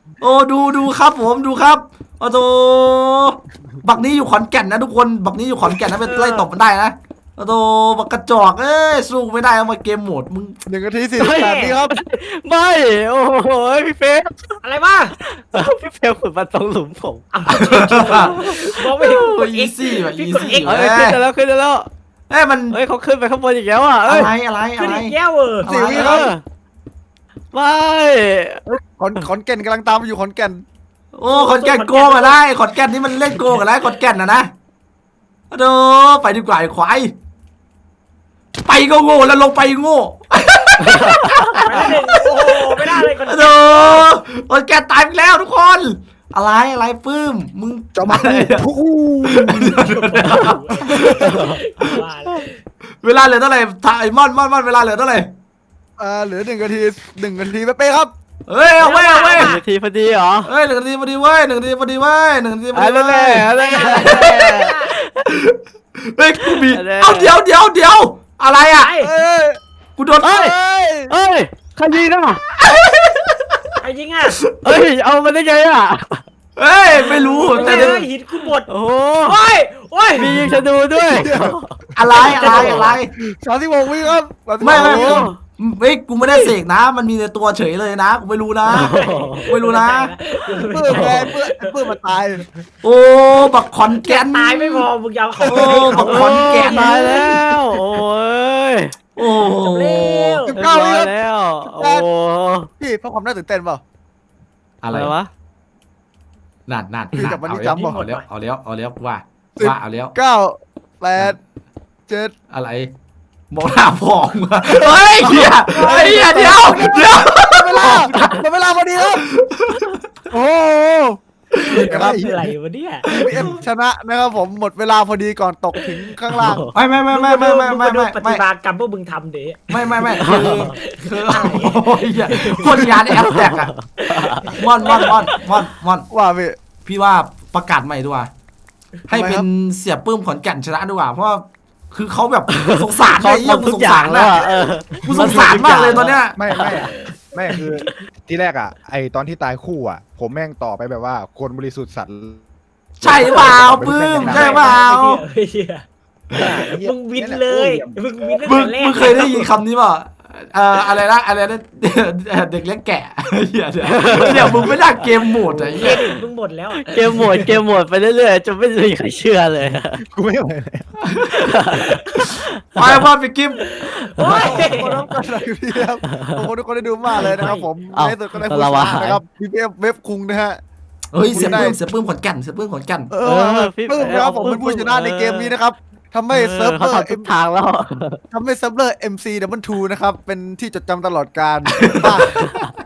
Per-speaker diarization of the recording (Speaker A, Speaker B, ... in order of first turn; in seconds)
Speaker A: 0.2-10.6, 17.5-18.5, 19.0-21.2, 22.3-22.8, 24.1-26.3, 31.1-34.5, 35.5-37.1, 38.6-48.6, 49.3-52.4, 53.0-55.3, 58.5-59.5, 60.5-64.7, 65.3-68.9, 70.0-70.5, 72.6-73.6, 74.3-74.7, 76.6-78.0, 81.9-83.1, 84.6-90.1, 92.8-94.8, 95.4-97.5, 99.2-100.5, 104.8-105.1, 106.7-110.1, 112.5-112.9, 113.5-118.4, 119.3-120.0, 126.7-128.4, 129.7-133.7, 134.5-136.1, 136.8-138.3, 139.1-144.4, 145.0-146.4, 153.0-155.2, 158.4-166.0, 171.1-171.6, 172.7-173.7, 181.1-183.1, 191.7-192.7
Speaker B: 6.0-6.5, 11.2-11.8, 14.6-15.2, 17.3-20.9, 24.8-26.0, 31.3-32.4, 41.5-44.1, 49.8-52.6, 58.8-59.6, 63.5-64.9, 68.7-69.1, 73.8-74.4, 77.0-78.7, 79.2-80.6, 82.4-83.0, 86.2-86.5, 88.6-92.6, 94.0-97.2, 99.2-100.5, 107.7-108.2, 121.5-123.5, 125.8-126.1, 127.1-133.1, 134.0-135.4, 146.6-147.9, 154.1-155.8, 156.4-159.5, 165.8-167.5, 173.6-175.0, 177.2-177.7, 184.0-184.6
Speaker C: 10.7-11.9, 25.6-26.3, 28.6-30.6, 56.0-58.1, 69.0-69.6, 70.2-71.1, 81.0-81.5, 82.4-85.3, 90.6-92.4, 95.5-96.0, 100.5-102.1, 102.8-103.8, 107.1-108.0, 109.6-111.4, 112.1-112.3, 114.6-119.2, 120.3-122.3, 123.0-126.7, 136.1-136.6, 139.1-139.5, 174.2-180.6, 181.3-181.8, 183.1-187.3, 188.3-192.3
Speaker D: 11.2-14.6, 15.2-17.2, 18.1-19.2, 20.6-21.9, 22.7-24.3, 26.0-26.4, 27.5-28.6, 40.8-41.3, 51.2-51.6, 59.3-60.5, 62.7-65.3, 66.5-67.3, 70.2-70.5, 71.1-72.4, 74.6-76.2, 77.5-78.0, 78.7-79.4, 80.2-81.7, 82.4-82.8, 84.7-85.4, 88.7-89.5, 90.8-91.3, 96.0-98.9, 100.5-102.7, 104.9-105.3, 126.3-126.7, 130.2-130.8, 133.1-135.4, 142.5-146.8, 163.9-164.9, 165.5-166.1, 166.8-170.0, 171.4-173.0, 174.0-175.0, 176.1-176.4, 177.2-179.2, 183.2-185.5, 186.3-188.2
Speaker E: 48.0-49.7, 121.7-122.4, 146.3-152.4, 153.0-154.8, 156.3-158.0, 170.0-170.9